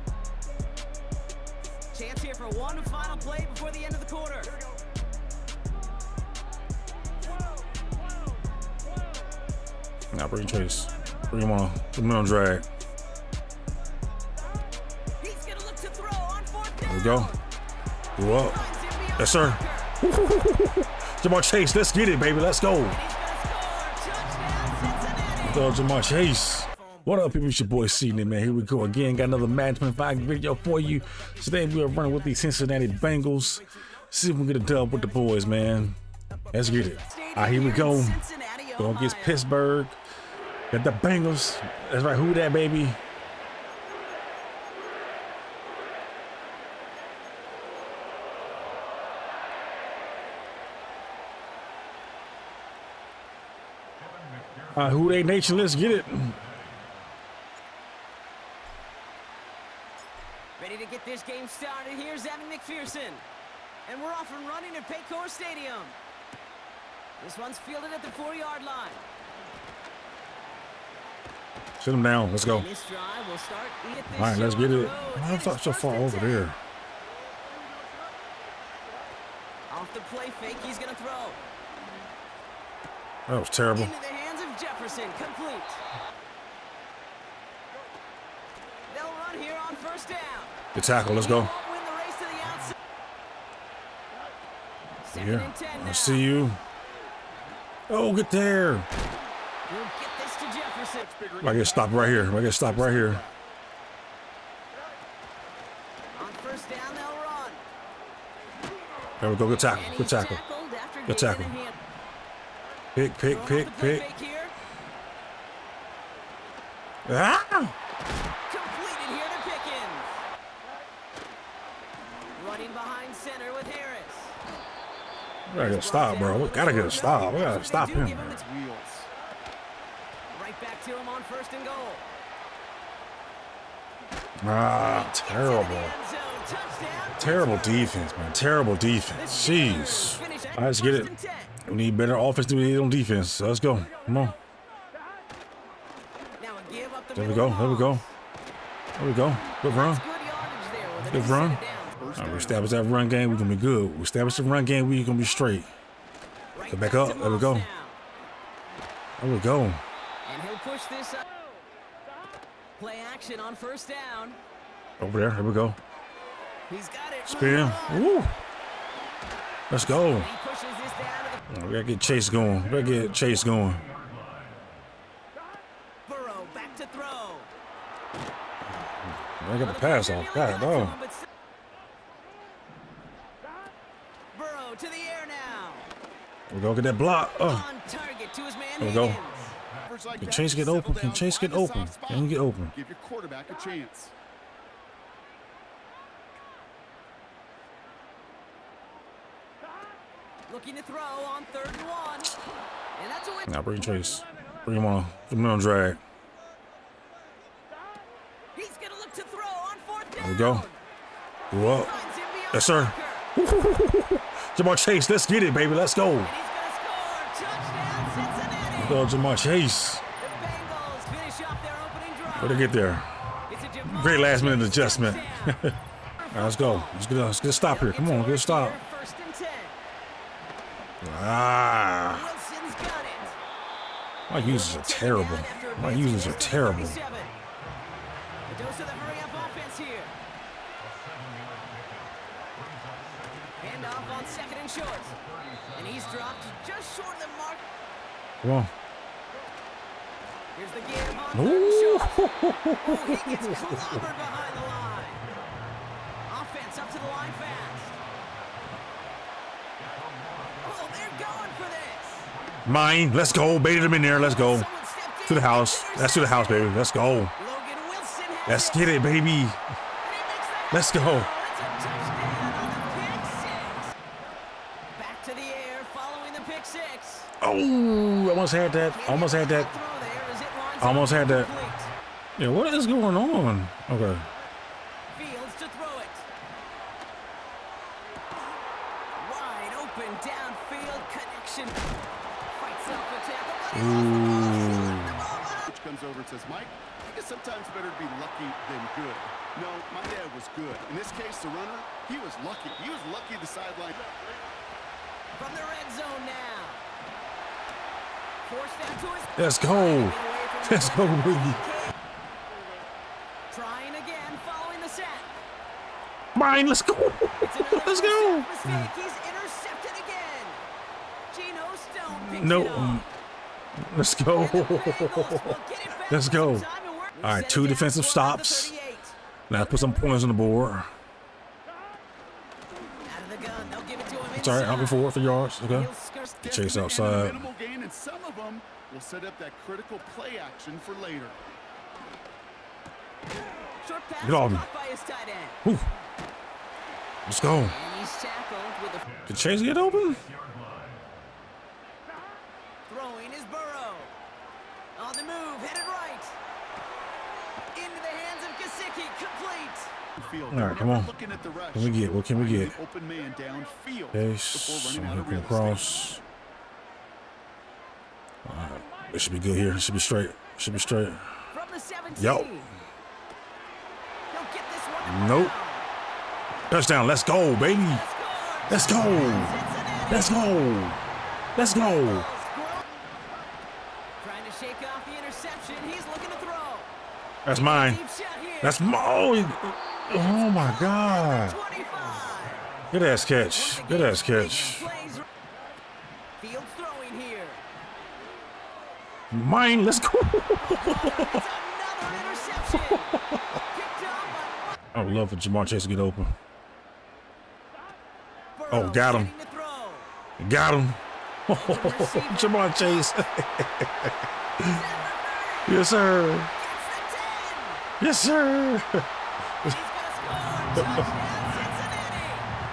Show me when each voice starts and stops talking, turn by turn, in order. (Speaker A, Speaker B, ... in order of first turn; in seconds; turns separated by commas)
Speaker A: 1.9-4.5, Speaker B: 10.1-12.6, Speaker A: 15.2-17.4, Speaker B: 16.8-17.3, Speaker B: 18.2-18.6, Speaker A: 18.2-20.0, Speaker B: 19.2-23.0, Speaker A: 22.8-25.7, Speaker B: 25.4-36.0, Speaker B: 36.5-38.2, Speaker A: 37.0-39.4, Speaker B: 38.8-40.0, Speaker B: 40.7-43.0, Speaker B: 54.7-56.4, Speaker A: 60.6-63.2, Speaker A: 63.8-66.0, Speaker A: 67.2-69.0, Speaker B: 71.8-72.7, Speaker A: 72.4-76.5, Speaker B: 74.2-76.5, Speaker A: 79.7-81.4, Speaker B: 83.3-83.9, Speaker A: 83.7-85.8, Speaker A: 88.9-92.7, Speaker B: 90.7-91.5, Speaker A: 95.0-96.3, Speaker B: 95.1-96.6, Speaker B: 97.9-98.9, Speaker A: 99.7-101.1, Speaker C: 101.0-103.4, Speaker B: 101.4-103.2, Speaker A: 106.1-107.6, Speaker B: 109.2-110.4, Speaker A: 109.6-111.8, Speaker B: 111.1-111.5, Speaker B: 112.9-114.0, Speaker A: 113.2-114.5, Speaker B: 117.0-117.7, Speaker A: 118.5-120.2, Speaker A: 122.3-124.3, Speaker B: 125.5-128.4, Speaker A: 125.5-128.4, Speaker C: 128.2-129.1, Speaker A: 130.3-132.0, Speaker B: 134.4-135.9, Speaker A: 134.8-137.9, Speaker B: 137.2-141.1, Speaker A: 139.1-141.6, Speaker B: 141.6-144.4, Speaker A: 146.4-148.1, Speaker B: 147.1-148.0, Speaker B: 149.0-150.0, Speaker A: 149.6-152.0, Speaker B: 151.1-151.6, Speaker C: 151.9-152.7, Speaker B: 152.2-155.7, Speaker A: 156.5-158.0, Speaker B: 156.7-157.7, Speaker B: 159.2-159.8, Speaker A: 160.2-161.2, Speaker A: 162.8-164.4, Speaker B: 165.0-165.8, Speaker A: 166.7-168.2, Speaker B: 167.3-168.3, Speaker B: 169.7-170.3, Speaker A: 170.1-171.5, Speaker B: 171.5-173.8, Speaker A: 176.1-177.5, Speaker B: 179.2-180.9, Speaker A: 179.6-181.2, Speaker A: 184.3-185.9, Speaker B: 186.5-187.7, Speaker A: 187.4-189.5, Speaker B: 188.8-189.2, Speaker C: 189.8-194.1, Speaker B: 190.2-192.7, Speaker A: 200.5-202.4, Speaker A: 202.9-203.6, Speaker B: 203.5-206.0, Speaker A: 208.5-210.8, Speaker B: 210.2-210.7, Speaker B: 211.5-211.9, Speaker A: 211.5-213.3, Speaker B: 212.5-216.3, Speaker A: 216.2-219.1, Speaker B: 218.8-220.0, Speaker A: 220.2-222.7, Speaker B: 222.3-223.1, Speaker A: 223.5-225.6, Speaker B: 223.8-225.8, Speaker A: 226.2-227.0, Speaker B: 226.3-228.8, Speaker A: 227.7-229.8, Speaker B: 231.0-232.3, Speaker A: 232.1-233.4, Speaker B: 234.3-237.0, Speaker A: 234.3-237.3, Speaker A: 238.5-240.2, Speaker A: 243.6-245.2, Speaker A: 245.7-247.7, Speaker B: 248.4-248.7, Speaker A: 250.5-255.2, Speaker B: 251.3-253.8, Speaker A: 256.2-258.0, Speaker A: 260.6-262.3, Speaker B: 262.6-264.7, Speaker A: 264.0-266.7, Speaker B: 265.3-267.3, Speaker A: 267.4-269.0, Speaker B: 268.5-269.6, Speaker A: 270.0-273.9, Speaker B: 270.7-271.3, Speaker A: 274.9-277.3, Speaker B: 277.4-279.7, Speaker A: 278.9-281.9, Speaker B: 280.8-281.5, Speaker B: 282.4-284.2, Speaker A: 285.1-286.3, Speaker A: 289.1-291.8, Speaker A: 292.5-295.7, Speaker B: 293.7-295.2, Speaker C: 295.6-304.1, Speaker A: 305.4-306.8, Speaker A: 308.4-311.9, Speaker B: 309.4-311.6, Speaker A: 313.5-315.4, Speaker B: 316.3-318.9, Speaker A: 317.4-320.6, Speaker A: 321.3-323.0, Speaker B: 322.2-323.1, Speaker B: 323.8-326.6, Speaker A: 324.3-329.6, Speaker B: 327.2-328.7, Speaker B: 329.5-330.9, Speaker A: 333.0-335.1, Speaker B: 334.4-335.9, Speaker A: 335.6-336.4, Speaker C: 336.4-341.4, Speaker B: 336.4-337.5, Speaker A: 343.8-345.6, Speaker B: 344.2-344.6, Speaker B: 347.2-347.7, Speaker A: 347.6-349.1, Speaker B: 349.3-350.2, Speaker A: 352.9-354.1, Speaker A: 354.9-356.4, Speaker A: 357.7-359.9, Speaker C: 360.1-366.0, Speaker B: 360.5-361.1, Speaker B: 361.7-362.7, Speaker B: 364.1-366.2, Speaker B: 368.4-371.3, Speaker A: 371.5-372.7, Speaker B: 372.2-372.5, Speaker A: 374.3-375.9, Speaker B: 375.1-375.5, Speaker B: 376.7-378.0, Speaker A: 377.6-380.4, Speaker B: 378.7-379.6, Speaker B: 380.1-381.0, Speaker B: 381.6-382.3, Speaker A: 381.6-382.8, Speaker A: 384.2-386.9, Speaker B: 387.4-388.0, Speaker A: 387.5-388.9, Speaker B: 388.6-391.6, Speaker A: 390.1-392.7, Speaker B: 392.9-394.9, Speaker A: 393.5-395.2, Speaker A: 396.4-397.6, Speaker B: 399.3-401.4, Speaker A: 400.6-404.8, Speaker B: 404.9-406.3, Speaker A: 408.6-410.1, Speaker B: 408.7-409.3, Speaker B: 410.4-414.8, Speaker A: 411.5-413.1, Speaker A: 414.6-415.9, Speaker B: 415.6-416.5, Speaker A: 416.5-417.8, Speaker B: 418.0-419.1, Speaker A: 419.6-422.5